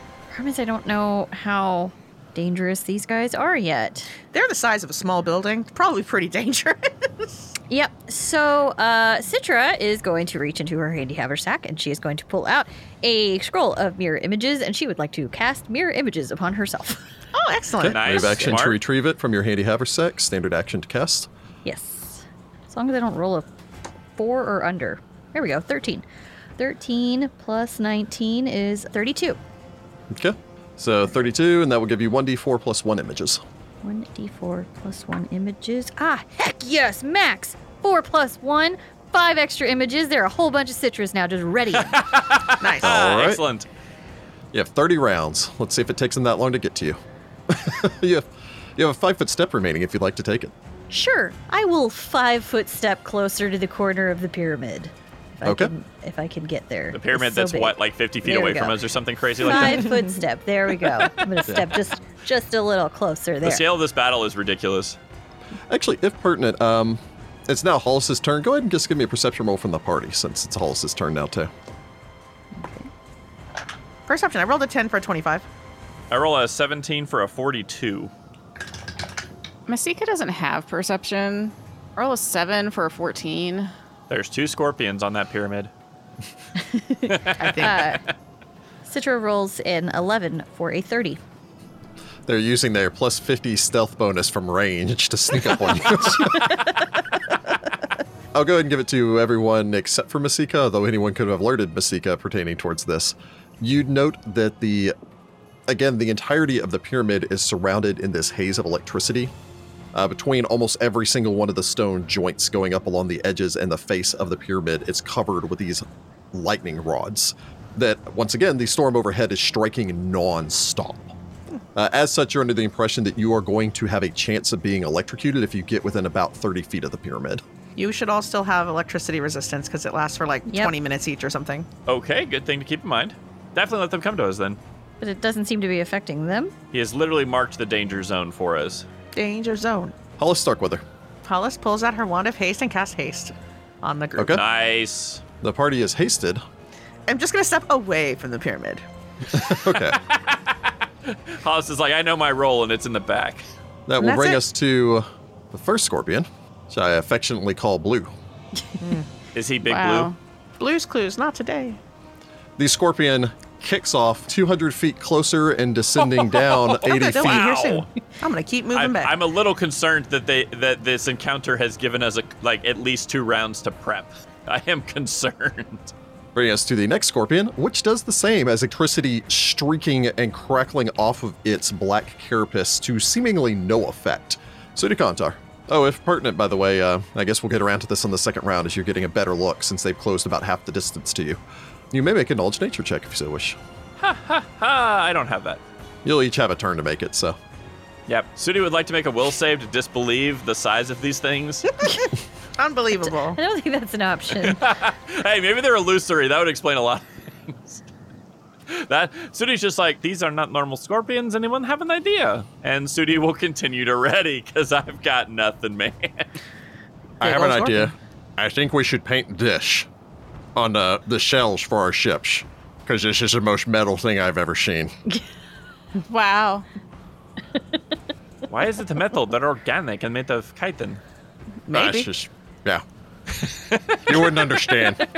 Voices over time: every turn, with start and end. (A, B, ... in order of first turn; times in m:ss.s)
0:00.3-0:04.1 A
0:04.3-0:07.3 B
0:07.7-0:17.0 A
0:17.3-0:18.2 B
0:17.8-0:21.3 C
0:17.8-0:18.8 D
0:21.6-0:23.5 A
0:24.2-0:26.0 A
0:26.6-0:29.4 A
0:30.1-0:33.4 C
0:33.8-0:42.0 A
0:41.8-0:43.7 D
0:42.6-0:42.9 B
0:42.8-0:43.4 C
0:44.5-0:48.2 C
0:48.8-0:50.5 C
0:50.9-0:58.8 A
0:55.4-0:55.7 C
0:56.9-1:00.0 D
0:59.4-1:03.6 A
1:03.4-1:05.0 D
1:05.7-1:11.5 C
1:12.5-1:12.9 A
1:14.1-1:15.4 B
1:16.1-1:18.1 D
1:19.7-1:23.7 E
1:24.1-1:25.7 D
1:26.7-1:28.0 A
1:27.1-1:27.8 D
1:27.4-1:27.9 B
1:28.8-1:31.2 A
1:32.3-1:36.6 C
1:38.3-1:44.9 C
1:45.7-1:49.3 C
1:49.9-2:01.2 C
2:01.7-2:07.4 C
2:07.8-2:11.7 B
2:10.4-2:10.7 A
2:11.8-2:14.6 D
2:15.0-2:16.5 A
2:16.7-2:18.8 D
2:19.1-2:19.9 B
2:20.2-2:20.8 C
2:21.2-2:24.4 B
2:24.2-2:24.4 C
2:24.3-2:25.2 D
2:25.4-2:26.4 C
2:27.1-2:28.8 B
2:29.3-2:30.0 C
2:29.7-2:33.4 D
2:33.9-2:38.1 C
2:34.0-2:34.4 B
2:38.8-2:39.0 B
2:39.3-2:40.1 D
2:39.6-2:40.2 E
2:40.6-2:41.8 B
2:42.6-2:47.5 C
2:46.4-2:47.9 D
2:46.7-2:49.1 B
2:48.7-2:55.9 D
2:56.3-3:11.4 C
3:11.9-3:13.6 C
3:14.0-3:15.6 D
3:16.0-3:17.4 C
3:18.1-3:21.7 D
3:21.8-3:23.4 B
3:23.0-3:24.7 A
3:24.3-3:27.8 D
3:28.7-3:36.4 D
3:37.2-3:39.9 C
3:37.2-3:37.9 B
3:40.6-3:44.9 C
3:46.1-3:46.6 E
3:48.5-3:51.0 D
3:51.7-3:52.1 B
3:51.7-3:52.8 C
3:53.3-3:54.9 D
3:54.0-3:55.0 C